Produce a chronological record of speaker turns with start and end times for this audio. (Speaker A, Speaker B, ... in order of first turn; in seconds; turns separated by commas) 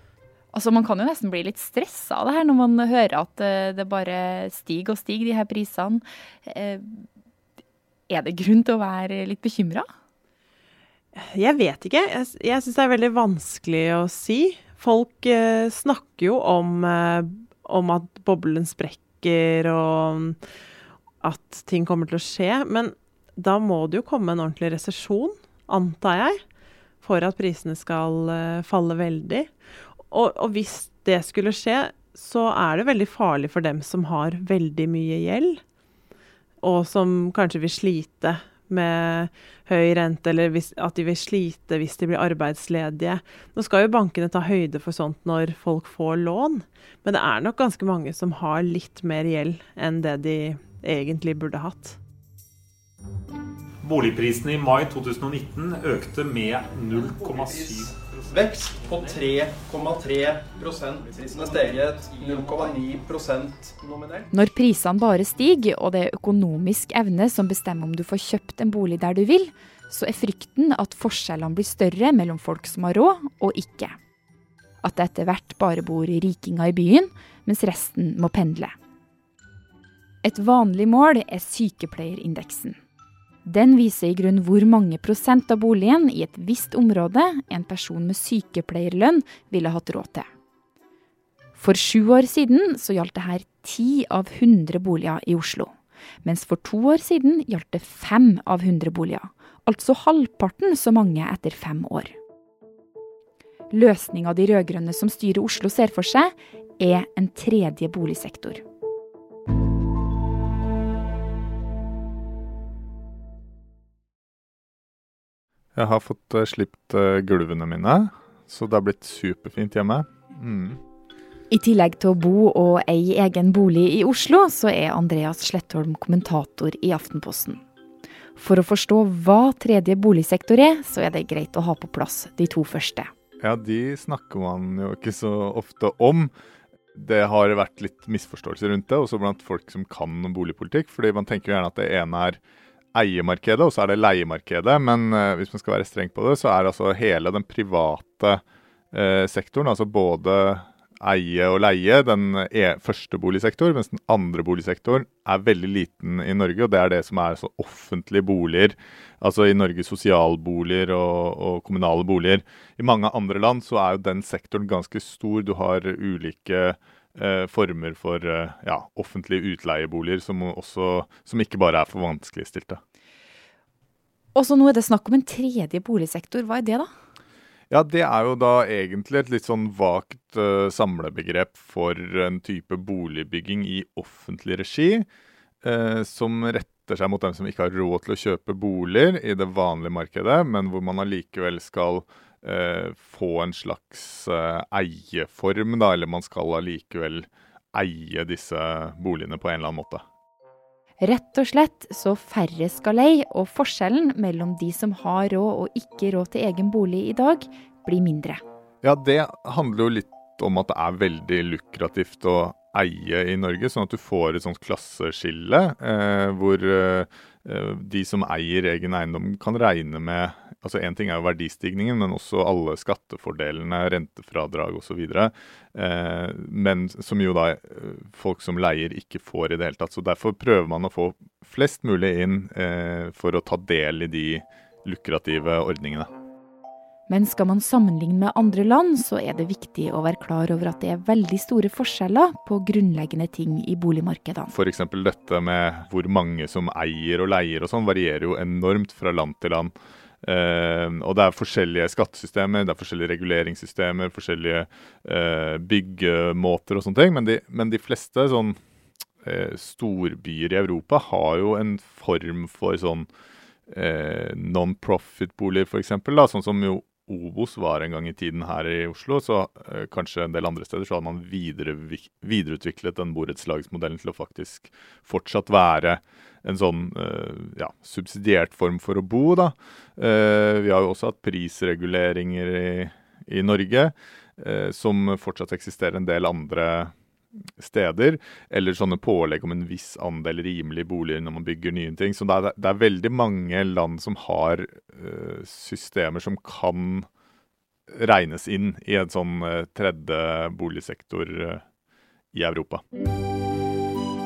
Speaker A: 0.5-7.0, Speaker A: 8.1-9.8, Speaker B: 11.2-20.4, Speaker B: 21.2-26.4, Speaker B: 27.0-29.5, Speaker B: 30.1-35.6, Speaker B: 36.6-52.0, Speaker C: 53.8-59.4, Speaker D: 57.1-64.3, Speaker A: 64.3-74.0, Speaker A: 74.8-78.8, Speaker A: 80.2-82.8, Speaker A: 83.5-90.3, Speaker A: 91.6-95.7, Speaker A: 96.2-102.1, Speaker A: 103.7-108.6, Speaker E: 115.8-120.8, Speaker A: 121.5-127.6, Speaker A: 128.4-133.1, Speaker E: 133.4-136.3, Speaker E: 137.0-142.4, Speaker E: 142.9-148.4, Speaker E: 148.9-172.8, Speaker A: 174.3-176.9, Speaker E: 177.7-185.1, Speaker E: 185.6-200.0, Speaker A: 201.0-208.4, Speaker E: 208.8-236.1, Speaker A: 237.1-244.5, Speaker E: 244.5-258.6, Speaker E: 259.2-263.1, Speaker E: 263.7-286.9, Speaker E: 287.6-297.1, Speaker E: 297.9-301.6, Speaker E: 302.3-302.8